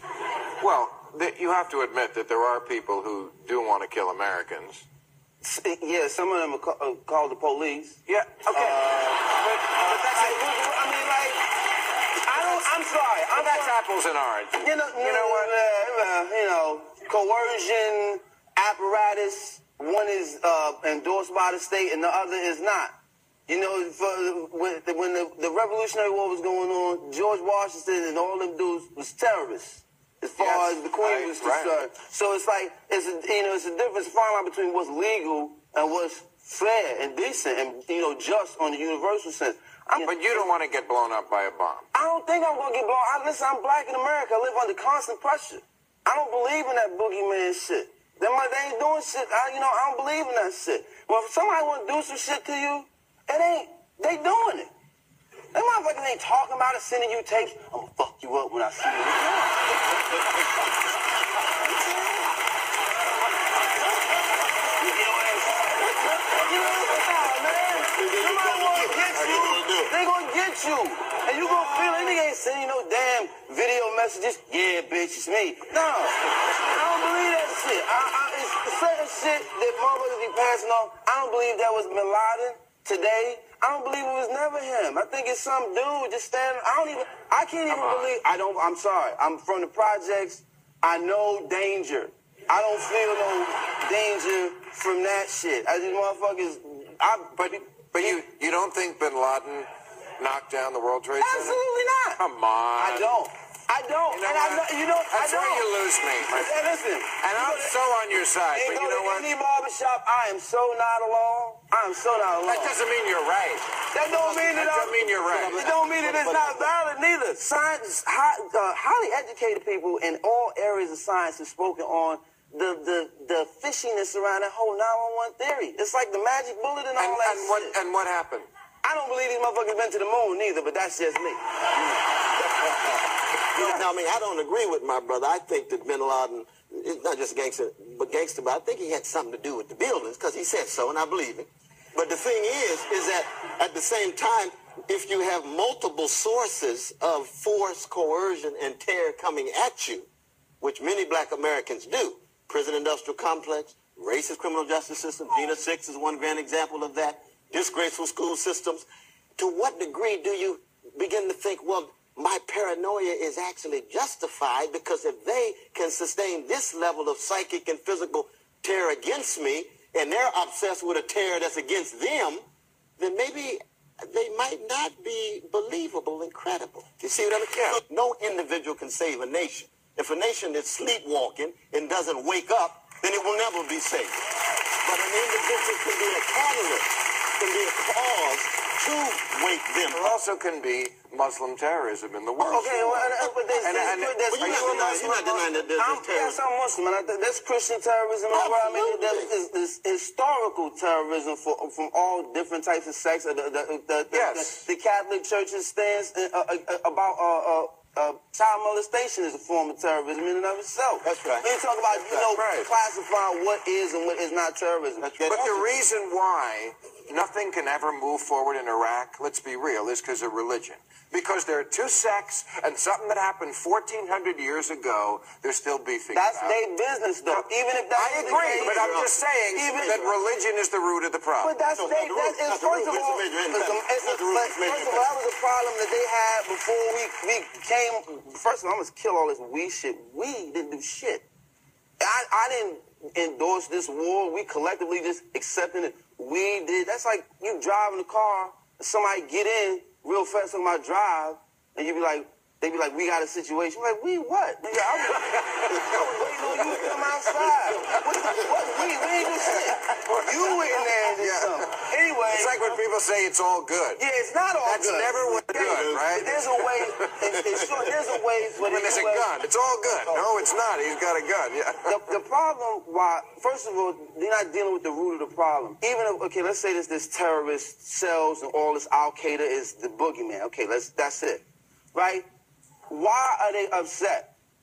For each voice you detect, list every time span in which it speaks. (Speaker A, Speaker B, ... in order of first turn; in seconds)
Speaker A: 0.5-4.8, 8.1-10.4, 12.3-12.8, 13.3-15.5, 30.4-31.8, 40.0-41.9, 87.7-88.1, 97.4-99.7, 100.2-101.6, 102.2-103.1, 104.1-106.7, 107.2-109.3, 112.4-113.7, 114.2-115.7, 127.0-128.5, 177.5-177.8, 189.9-194.8, 204.1-204.7, 212.3-212.7, 215.2-226.6, 227.3-231.6, 255.1-255.9, 257.4-258.0, 259.4-261.7, 262.3-264.0, 264.6-267.1, 268.6-272.1
Speaker B: 5.4-11.4, 12.2-13.8, 14.6-22.9, 23.5-40.5, 41.9-54.7, 55.5-60.0, 64.5-98.2, 101.2-102.2, 102.8-105.7, 106.2-107.8, 108.5-112.8, 113.9-127.8, 128.8-131.6, 133.6-133.8, 192.4-215.1, 226.1-229.0, 229.5-230.2, 231.4-241.2, 242.0-262.8, 264.0-269.4, 271.9-282.3, 282.9-284.3
Speaker C: 65.9-66.2, 67.8-69.9, 71.4-72.0, 114.1-114.5, 115.0-116.7, 132.5-133.0, 133.5-150.1, 150.6-158.9, 159.4-172.4, 173.0-190.2, 192.4-196.4, 198.3-199.3, 211.0-212.3, 215.0-215.7, 228.2-229.2, 231.7-235.1, 255.7-258.6, 265.2-266.7, 267.5-267.9, 269.9-270.5